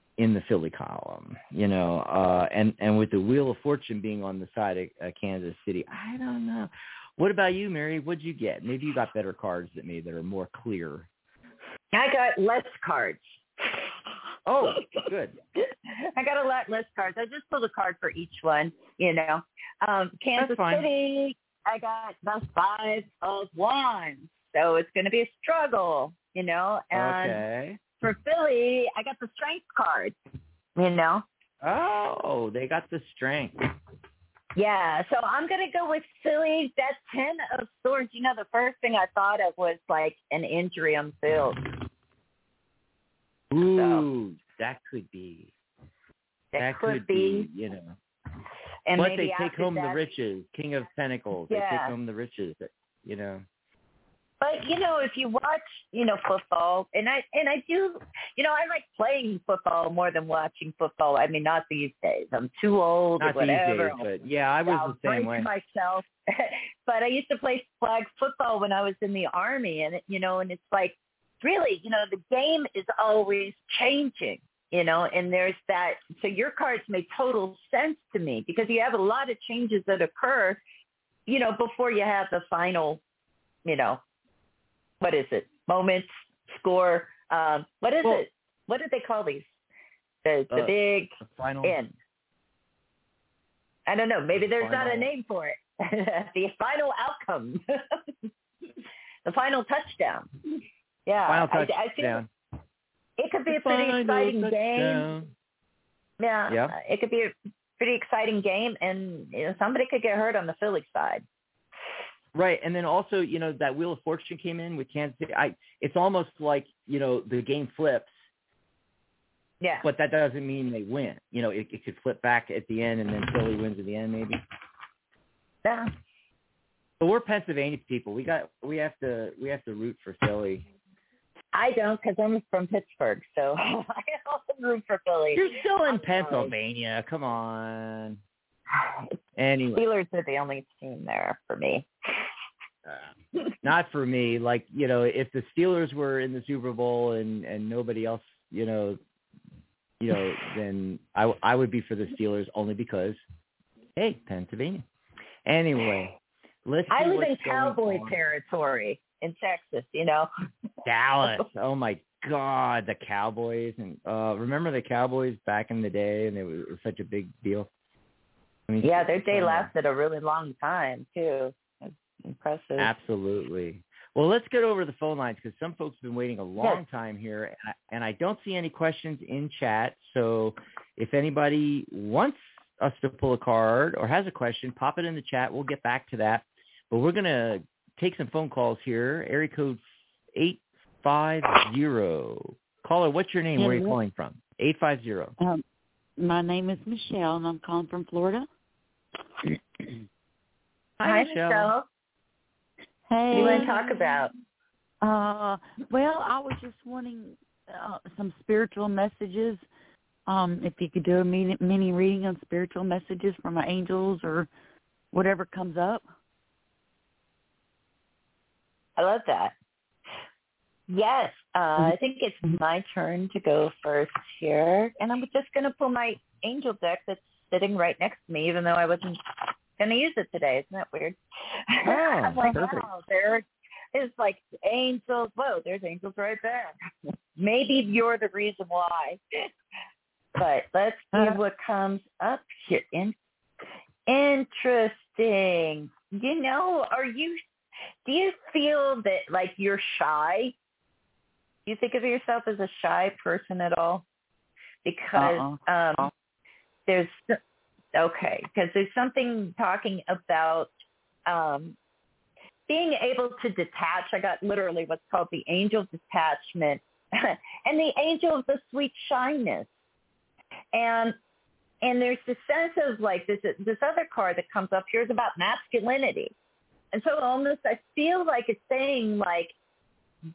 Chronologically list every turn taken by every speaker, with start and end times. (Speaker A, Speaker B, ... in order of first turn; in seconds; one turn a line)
Speaker A: 0.2-11.1
Speaker B: 11.9-13.7
Speaker A: 14.4-15.3
Speaker B: 16.1-27.4
Speaker A: 20.4-20.9
Speaker A: 26.9-27.8
Speaker B: 28.0-30.1
Speaker B: 30.8-31.2
Speaker A: 31.6-33.7
Speaker B: 34.5-41.6
Speaker A: 43.5-45.5
Speaker B: 43.7-44.1
Speaker B: 46.5-47.5
Speaker A: 46.6-48.0
Speaker B: 48.9-50.0
Speaker A: 48.9-53.4
Speaker B: 51.5-52.0
Speaker B: 54.4-64.0
Speaker A: 63.2-65.5
Speaker B: 64.7-80.6
Speaker B: 81.3-83.0
Speaker B: 83.6-84.0
Speaker B: 85.0-89.5
Speaker B: 90.2-91.9
Speaker A: 90.5-91.8
Speaker B: 93.9-97.6
Speaker A: 94.6-95.1
Speaker B: 99.2-100.3
Speaker B: 101.0-102.2
Speaker A: 101.2-102.3
Speaker B: 103.2-105.1
Speaker A: 103.5-105.3
Speaker B: 106.2-111.2
Speaker A: 106.5-106.7
Speaker A: 112.3-118.1
Speaker B: 119.6-119.8
Speaker A: 119.8-124.4
Speaker B: 125.6-125.9
Speaker A: 127.0-130.6
Speaker B: 131.5-136.5
Speaker A: 135.3-138.2
Speaker A: 139.3-139.8
Speaker B: 139.7-142.2
Speaker A: 143.6-149.0
Speaker A: 150.0-153.2
Speaker A: 153.9-154.8
Speaker A: 155.4-158.2
Speaker B: 156.9-160.3
Speaker A: 160.8-167.7
Speaker A: 168.7-169.7
Speaker B: 168.8-172.9
Speaker A: 172.8-189.8
Speaker A: 190.3-195.3
Speaker C: 193.6-193.9
Speaker C: 196.2-198.4
Speaker A: 201.0-201.7
Speaker B: 201.0-201.8
Speaker C: 203.1-204.3
Speaker B: 203.3-204.3
Speaker C: 205.0-209.6
Speaker C: 210.3-214.5
Speaker C: 215.1-216.0
Speaker B: 219.0-219.5
Speaker B: 220.9-229.2
Speaker B: 229.8-231.2
Speaker B: 231.7-236.7
Speaker A: 231.8-232.8
Speaker B: 237.4-239.2
Speaker B: 240.4-243.1
Speaker C: 241.1-241.4
Speaker B: 244.1-247.4
Speaker B: 248.0-250.5
Speaker B: 251.7-254.0
Speaker B: 254.8-256.1
Speaker C: 255.1-256.1
Speaker B: 256.9-257.4
Speaker B: 257.9-260.7
Speaker B: 261.2-261.8
Speaker B: 262.7-269.7
Speaker B: 270.7-271.1
Speaker B: 271.8-276.3
Speaker B: 276.9-279.5